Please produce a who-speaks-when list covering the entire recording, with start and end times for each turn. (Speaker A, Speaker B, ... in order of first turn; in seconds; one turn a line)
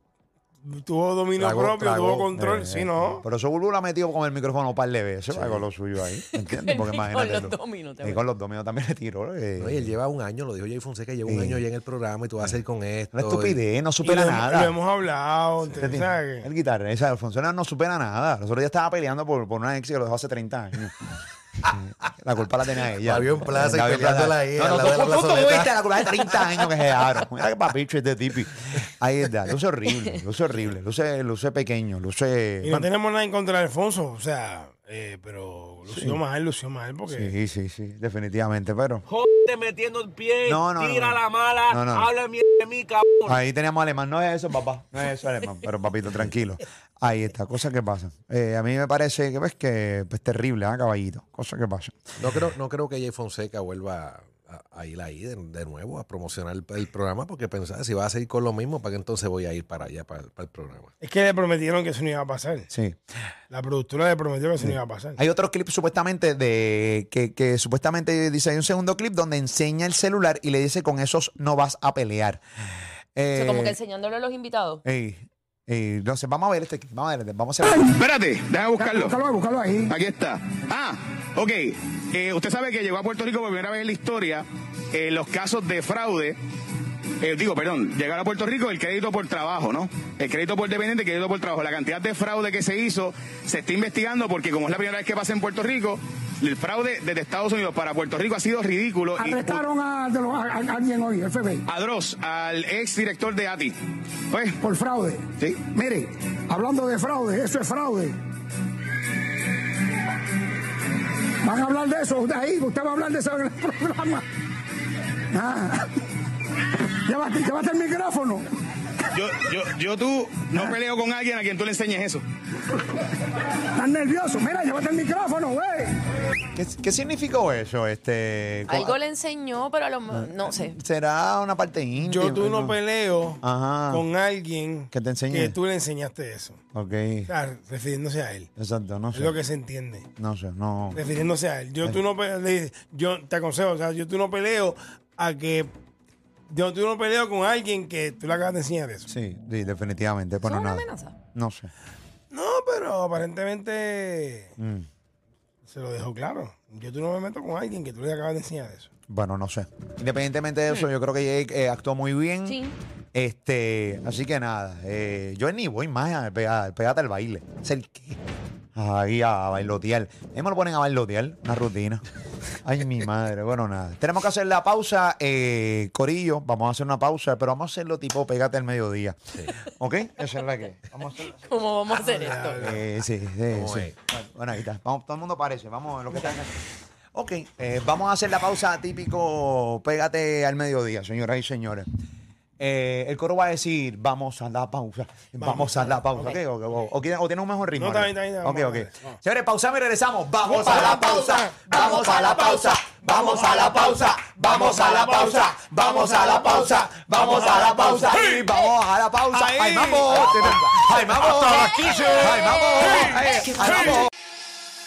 Speaker A: 0.6-3.2
Speaker B: 1.4-2.6
Speaker C: 2.4-9.9
Speaker B: 5.3-5.6
Speaker D: 6.3-8.2
Speaker B: 9.6-13.6
Speaker C: 11.3-11.6
Speaker C: 13.1-14.7
Speaker A: 14.0-16.5
Speaker C: 15.8-20.9
Speaker C: 21.6-32.9
Speaker B: 23.0-25.7
Speaker A: 32.6-37.3
Speaker C: 35.9-36.2
Speaker C: 37.1-39.0
Speaker E: 39.1-43.4
Speaker C: 40.4-42.1
Speaker C: 43.2-52.4
Speaker B: 52.2-60.9
Speaker A: 61.0-62.7
Speaker C: 62.7-63.0
Speaker A: 63.5-65.2
Speaker C: 64.6-72.4
Speaker C: 73.2-73.8
Speaker D: 73.3-74.8
Speaker C: 74.8-77.9
Speaker F: 77.8-79.2
Speaker G: 78.8-79.9
Speaker F: 79.9-86.4
Speaker F: 87.2-99.6
Speaker G: 99.2-101.6
Speaker F: 101.7-103.8
Speaker F: 104.3-104.6
Speaker G: 104.6-108.2
Speaker G: 111.4-114.2
Speaker G: 115.3-116.0
Speaker G: 117.0-118.4
Speaker F: 119.1-122.2
Speaker G: 123.7-125.9
Speaker C: 126.5-129.0
Speaker D: 128.7-130.8
Speaker C: 130.1-132.8
Speaker A: 132.0-136.6
Speaker C: 133.4-134.0
Speaker C: 134.9-135.6
Speaker C: 136.7-137.3
Speaker A: 137.3-138.5
Speaker C: 138.6-139.3
Speaker A: 139.1-140.1
Speaker C: 140.2-141.0
Speaker A: 140.9-145.7
Speaker A: 146.5-149.1
Speaker C: 149.1-151.7
Speaker D: 150.4-151.1
Speaker A: 152.3-154.5
Speaker C: 154.6-154.9
Speaker A: 155.7-158.9
Speaker C: 159.1-162.6
Speaker D: 162.5-162.7
Speaker C: 163.1-168.2
Speaker C: 168.7-172.0
Speaker C: 172.6-181.4
Speaker D: 181.3-182.6
Speaker A: 182.0-182.8
Speaker C: 182.6-186.5
Speaker B: 183.5-183.9
Speaker C: 187.1-191.9
Speaker C: 192.6-214.1
Speaker A: 195.4-196.4
Speaker A: 197.8-199.2
Speaker A: 200.4-202.3
Speaker A: 204.9-205.2
Speaker A: 207.3-208.4
Speaker A: 209.3-214.0